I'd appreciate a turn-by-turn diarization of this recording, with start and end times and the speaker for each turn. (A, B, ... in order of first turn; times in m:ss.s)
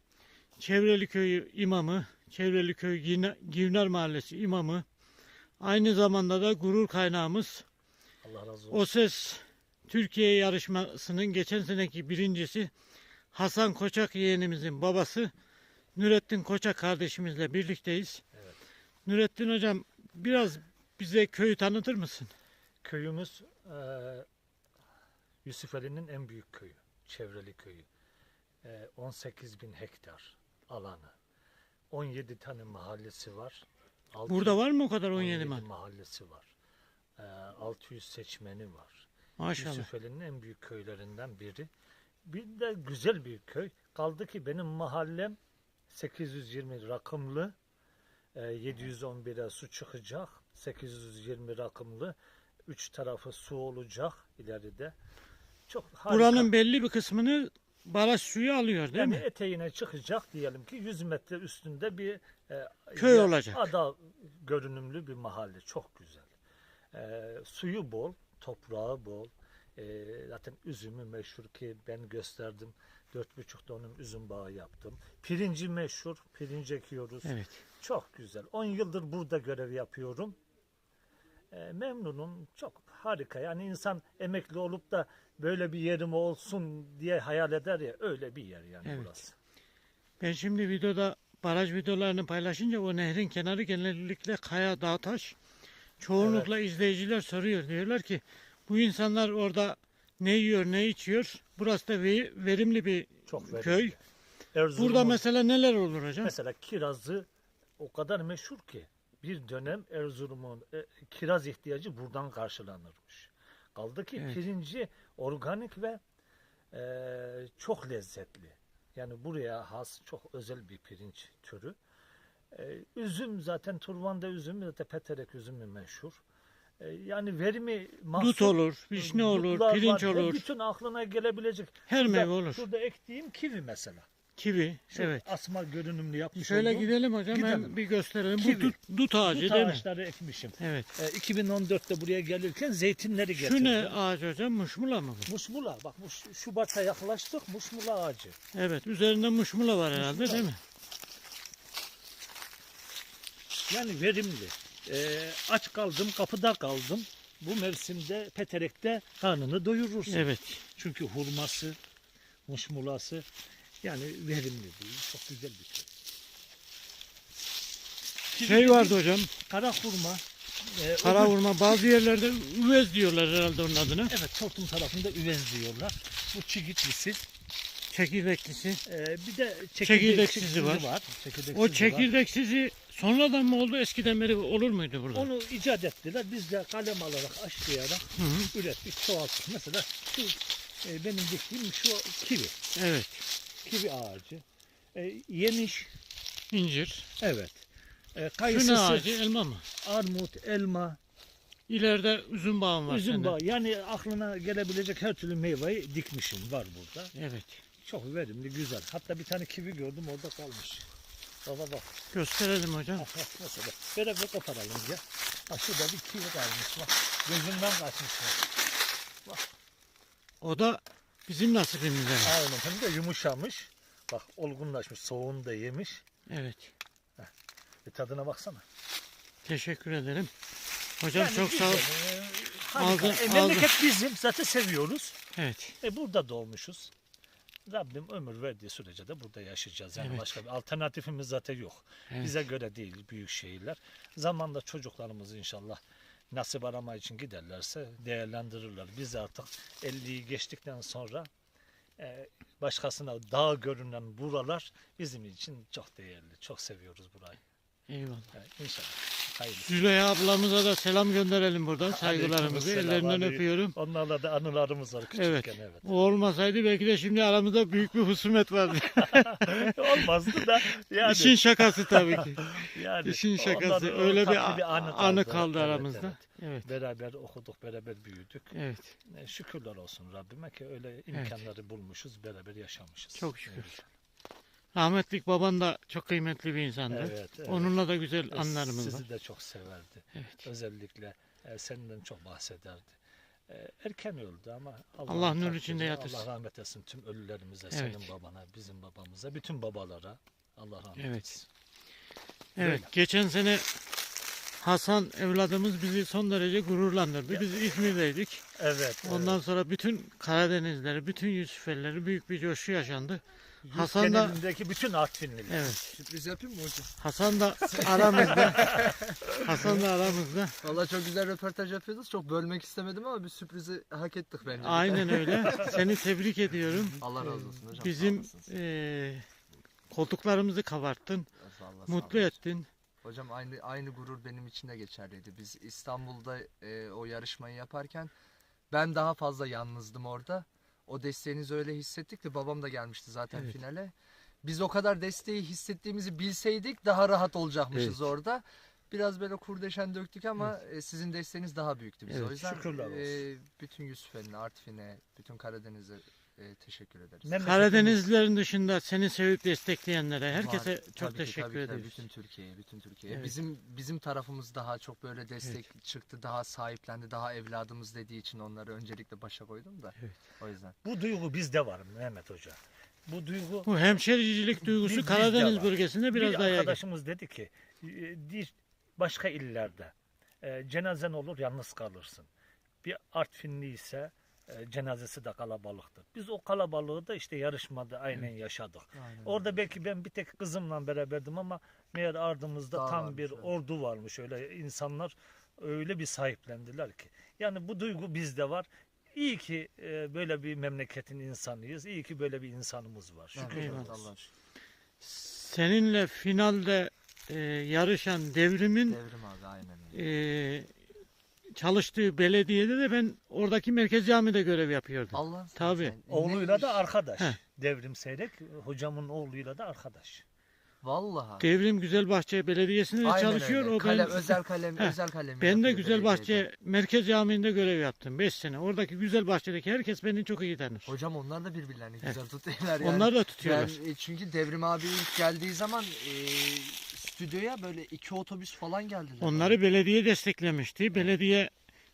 0:00.6-0:04.8 A
0:05.6-0:07.7 A
0:08.2-0:08.9 B
0:08.7-0:12.7 A
0:13.3-0:15.3 A
0:16.0-0:18.2 A
0:18.3-0:18.6 B
0:19.1-0:22.3 A
0:22.8-0:24.3 B
0:25.4-0:27.9 B
0:28.6-0:31.1 B
0:31.9-0:34.6 B
0:34.3-0:35.6 A
0:35.2-0:36.5 B
0:37.2-0:41.7 B
0:39.4-0:39.9 A
0:42.2-0:45.4 B
0:45.9-0:47.5 B
0:48.4-0:52.2 B
0:52.7-0:54.9 B
0:55.7-0:56.5 B
0:56.1-0:59.2 A
0:59.0-1:06.3 B
1:03.0-1:03.7 A
1:06.9-1:20.4 B
1:17.2-1:17.6 A
1:21.5-1:29.4 B
1:28.8-1:29.2 A
1:30.2-1:35.4 A
1:36.0-1:44.0 A
1:36.2-1:36.5 B
1:43.3-1:44.0 B
1:44.5-1:45.2 B
1:44.8-1:46.3 A
1:46.2-1:47.3 B
1:47.8-1:56.0 B
1:56.7-2:01.8 B
2:02.5-2:06.2 B
2:06.8-2:14.1 B
2:08.2-2:10.5 A
2:11.9-2:12.6 A
2:14.4-2:15.2 A
2:14.9-2:17.8 B
2:16.4-2:19.8 A
2:18.4-2:24.0 B
2:20.6-2:20.9 A
2:23.4-2:25.3 A
2:25.3-2:28.4 B
2:28.5-2:30.6 A
2:29.9-2:30.5 B
2:33.7-2:41.8 B
2:40.1-2:40.6 A
2:42.5-2:43.3 B
2:43.8-2:45.9 B
2:48.3-2:51.8 B
2:48.4-2:49.3 A
2:51.0-2:54.1 A
2:54.1-2:57.3 B
2:57.9-2:58.8 A
2:58.9-3:02.1 B
2:59.8-3:00.9 A
3:01.5-3:05.3 A
3:05.1-3:12.6 B
3:08.2-3:08.5 A
3:12.8-3:13.3 A
3:13.6-3:15.9 B
3:16.5-3:17.1 A
3:17.2-3:19.2 B
3:18.5-3:19.7 A
3:19.8-3:21.0 B
3:21.7-3:23.4 A
3:22.9-3:27.1 B
3:27.1-3:27.6 A
3:27.8-3:30.9 B
3:31.4-3:32.0 B
3:32.1-3:33.1 A
3:33.0-3:38.4 B
3:40.4-3:42.4 A
3:42.2-3:46.0 B
3:46.3-3:46.7 A
3:47.9-3:48.6 B
3:49.4-3:50.3 A
3:51.0-3:51.9 A
3:51.1-3:55.2 B
3:52.8-3:53.8 A
3:55.4-3:55.8 A
3:55.8-3:56.9 B
3:57.7-4:05.8 B
4:00.0-4:00.4 A
4:06.3-4:11.3 B
4:12.0-4:17.4 B
4:17.9-4:18.3 A
4:18.3-4:19.7 B
4:19.6-4:23.8 A
4:21.9-4:25.9 B
4:25.2-4:29.7 A
4:29.0-4:38.6 B
4:31.0-4:36.7 A
4:38.5-4:39.0 A
4:39.1-4:43.9 B
4:43.2-4:43.8 A
4:44.8-4:49.0 A
4:46.9-4:47.8 B
4:48.3-4:53.0 B
4:53.5-5:01.2 B
4:55.1-4:56.3 A
4:57.7-4:58.1 A
5:01.0-5:01.4 A
5:02.6-5:03.7 A
5:02.6-5:02.9 B
5:04.6-5:08.4 A
5:08.6-5:09.4 B
5:09.0-5:14.4 A
5:13.6-5:15.7 B
5:15.5-5:15.9 A
5:15.9-5:16.9 C
5:17.0-5:18.8 A
5:17.7-5:19.3 C
5:19.4-5:20.6 A
5:20.6-5:25.8 C
5:24.6-5:27.0 A
5:25.2-5:25.6 B
5:27.0-5:28.5 C
5:27.8-5:29.3 A
5:29.9-5:31.3 A
5:31.4-5:32.4 C
5:31.9-5:32.7 A
5:33.0-5:38.1 C
5:38.7-5:57.4 C
5:47.7-5:48.0 A
5:52.1-5:52.3 A
5:52.4-5:53.2 B
5:57.2-5:58.0 B
5:57.4-6:02.0 A
6:00.3-6:10.8 C
6:10.8-6:13.7 B
6:13.7-6:16.8 A
6:14.8-6:22.3 B
6:22.8-6:44.1 B
6:29.0-6:29.6 C
6:32.7-6:33.5 C
6:43.3-6:44.3 C
6:43.5-6:43.9 A
6:45.0-6:49.0 A
6:48.9-6:50.0 C
6:49.9-6:50.7 A
6:51.5-6:56.0 A
6:55.1-6:56.9 C
6:56.1-7:00.2 B
7:00.8-7:01.5 C
7:01.4-7:10.9 A
7:03.0-7:06.4 C
7:10.9-7:19.6 C
7:12.8-7:13.8 A
7:19.2-7:21.5 A